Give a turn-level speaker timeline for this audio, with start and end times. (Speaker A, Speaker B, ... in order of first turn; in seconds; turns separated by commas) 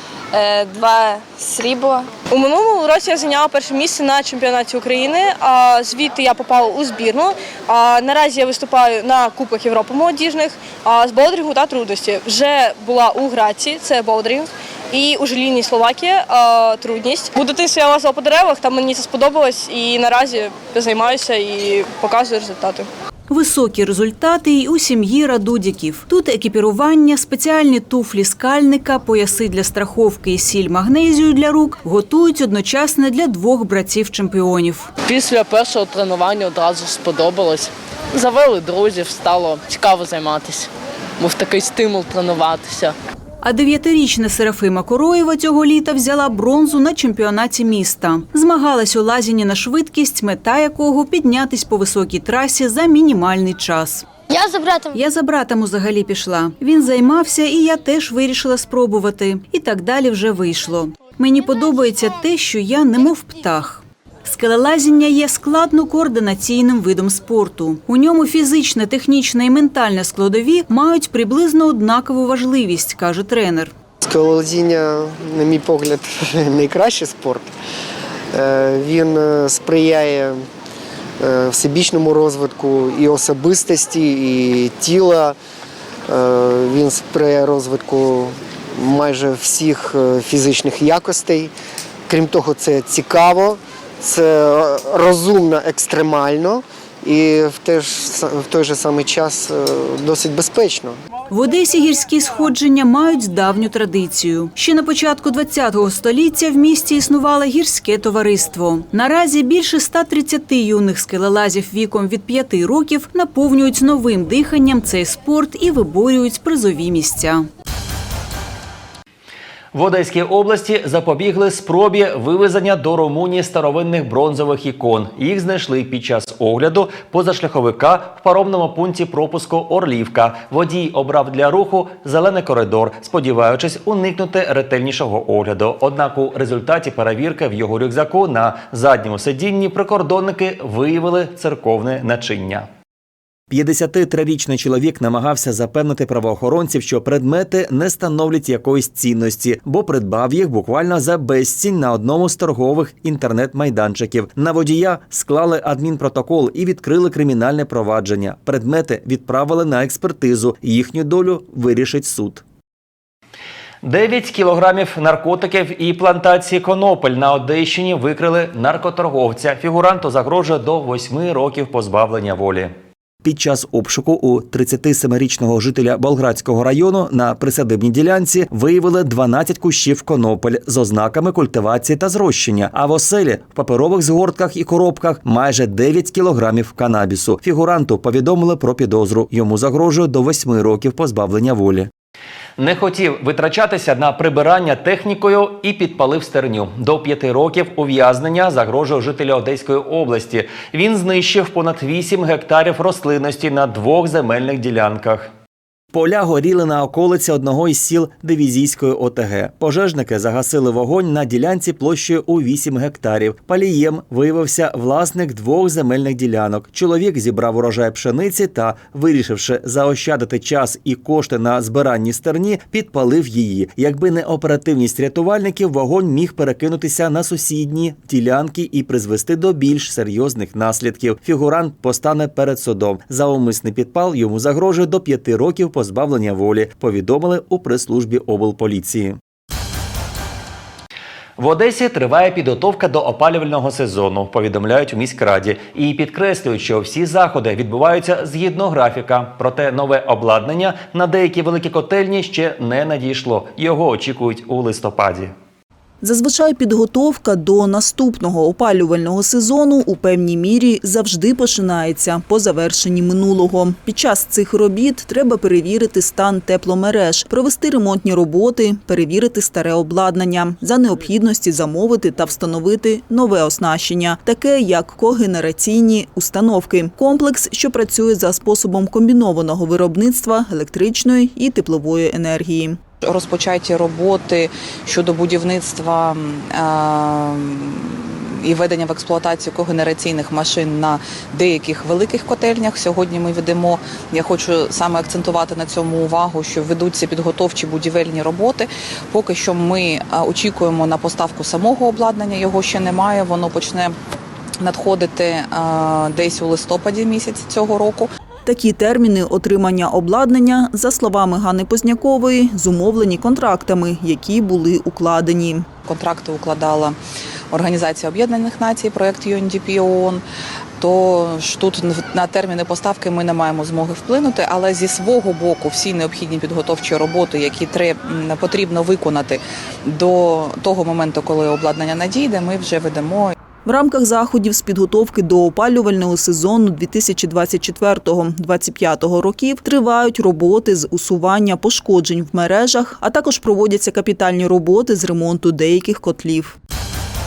Speaker A: 0.3-2.2, Speaker B: 2.3-22.9, Speaker C: 23.3-34.9, Speaker A: 35.2-40.7, Speaker A: 41.3-42.9, Speaker C: 43.4-54.1, Speaker C: 54.9-73.7, Speaker D: 74.0-77.5, Speaker D: 78.3-80.5, Speaker D: 81.2-85.4, Speaker D: 86.1-91.5, Speaker D: 92.1-101.0, Speaker C: 101.3-117.5, Speaker E: 119.7-142.7, Speaker E: 143.5-162.4, Speaker E: 163.8-172.7, Speaker E: 173.2-191.9, Speaker E: 192.6-205.3, Speaker E: 205.9-239.2, Speaker E: 241.4-255.3, Speaker F: 256.0-282.8, Speaker G: 283.0-303.9, Speaker G: 304.6-308.1, Speaker F: 308.5-315.7, Speaker G: 315.9-317.0, Speaker G: 317.5-320.2, Speaker G: 320.8-333.4, Speaker F: 333.6-346.6